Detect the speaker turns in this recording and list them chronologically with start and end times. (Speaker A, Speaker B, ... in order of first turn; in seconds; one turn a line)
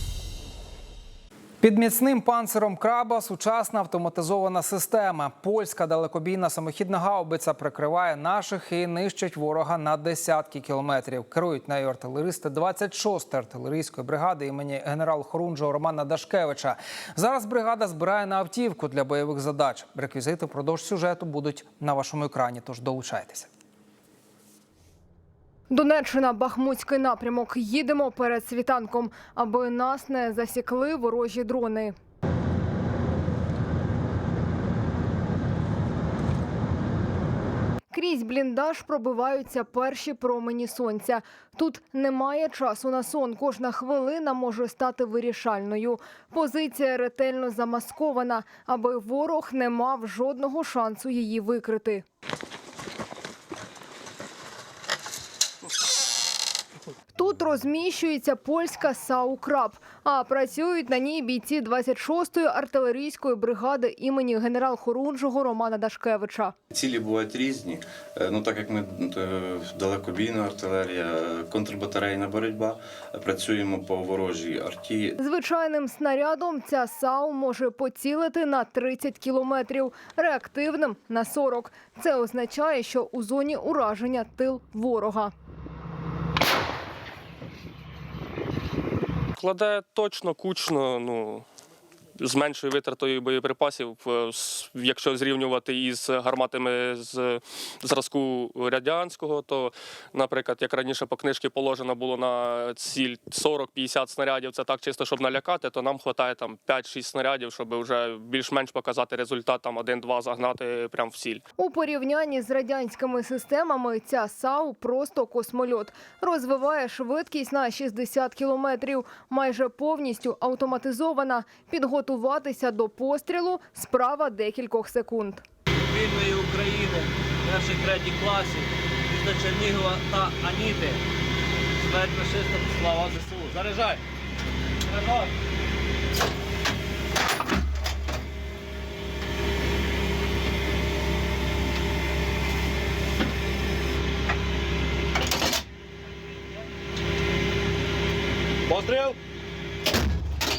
Speaker A: 1.6-23.5
Speaker B: 25.7-31.9
Speaker B: 37.9-52.0
Speaker B: 57.1-66.5
Speaker C: 66.7-75.2
Speaker B: 75.2-85.3
Speaker D: 89.4-91.5
Speaker D: 92.2-111.4
Speaker B: 111.6-125.4
Speaker E: 125.9-131.0
Speaker E: 131.8-134.0
Speaker E: 148.7-149.2